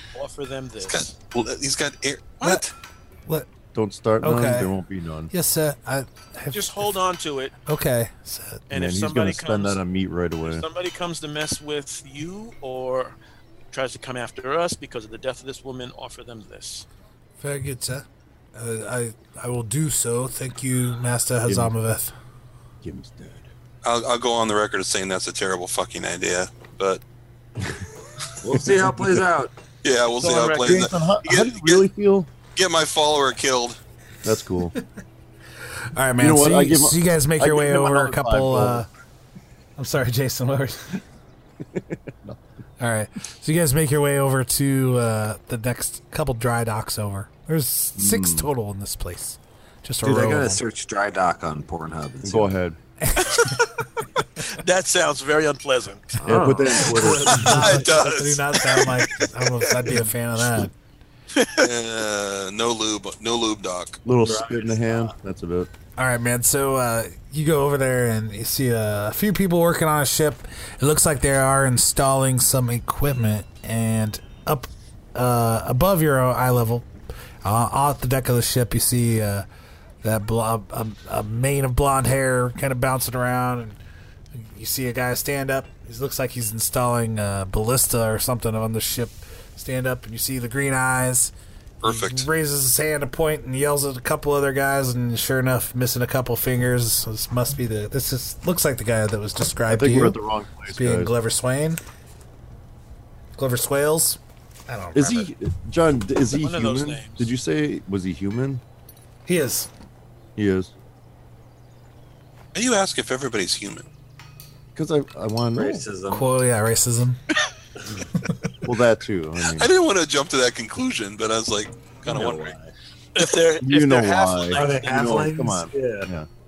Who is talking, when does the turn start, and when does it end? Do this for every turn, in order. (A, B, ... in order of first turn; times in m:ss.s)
0:00.1-0:01.1 A
0:00.8-0:02.7 B
0:03.7-0:05.3 C
0:04.2-0:04.7 D
0:05.3-0:06.9 D
0:06.5-0:07.5 A
0:07.7-0:08.6 D
0:08.7-0:09.8 A
0:08.7-0:10.6 C
0:10.4-0:13.2 A
0:13.7-0:16.9 A
0:17.4-0:22.1 D
0:21.4-0:21.7 C
0:22.8-0:23.5 C
0:23.8-0:27.0 B
0:28.4-0:29.5 E
0:28.5-0:29.2 C
0:29.8-0:31.9 B
0:30.2-0:32.3 C
0:32.6-0:33.8 B
0:34.2-0:34.7 C
0:35.9-0:38.9 D
0:36.2-0:38.9 C
0:39.8-0:41.0 D
0:41.8-0:42.4 C
0:42.8-0:50.6 D
0:48.0-0:48.5 C
0:50.0-0:52.5 E
0:52.2-0:52.8 C
0:53.0-0:53.6 D
0:53.3-0:53.6 A
0:54.2-0:56.2 A
0:56.2-0:57.1 E
0:56.2-0:57.6 C
0:56.9-1:00.7 D
0:57.2-0:59.0 B
0:57.5-0:58.0 A
0:59.6-1:00.0 A
1:01.3-1:01.7 A
1:01.6-1:04.0 B
1:04.0-1:05.7 C
1:04.2-1:05.1 E
1:06.0-1:16.9 D
1:17.4-1:19.4 D
1:20.0-1:23.8 D
1:24.3-1:40.2 D
1:31.8-1:32.3 B
1:39.7-1:41.1 C
1:40.7-1:41.8 D
1:43.4-1:45.3 D
1:44.9-1:48.6 C
1:46.3-1:47.3 A
1:49.3-1:49.7 D
1:50.4-1:50.7 C
1:52.5-1:53.8 B
1:54.8-1:55.8 C
1:55.5-1:56.3 E
1:56.1-1:57.2 D
1:58.6-1:59.7 C
1:59.5-2:02.6 B
2:02.0-2:02.7 E
2:03.1-2:05.1 A
2:03.6-2:06.3 C
2:04.5-2:06.1 E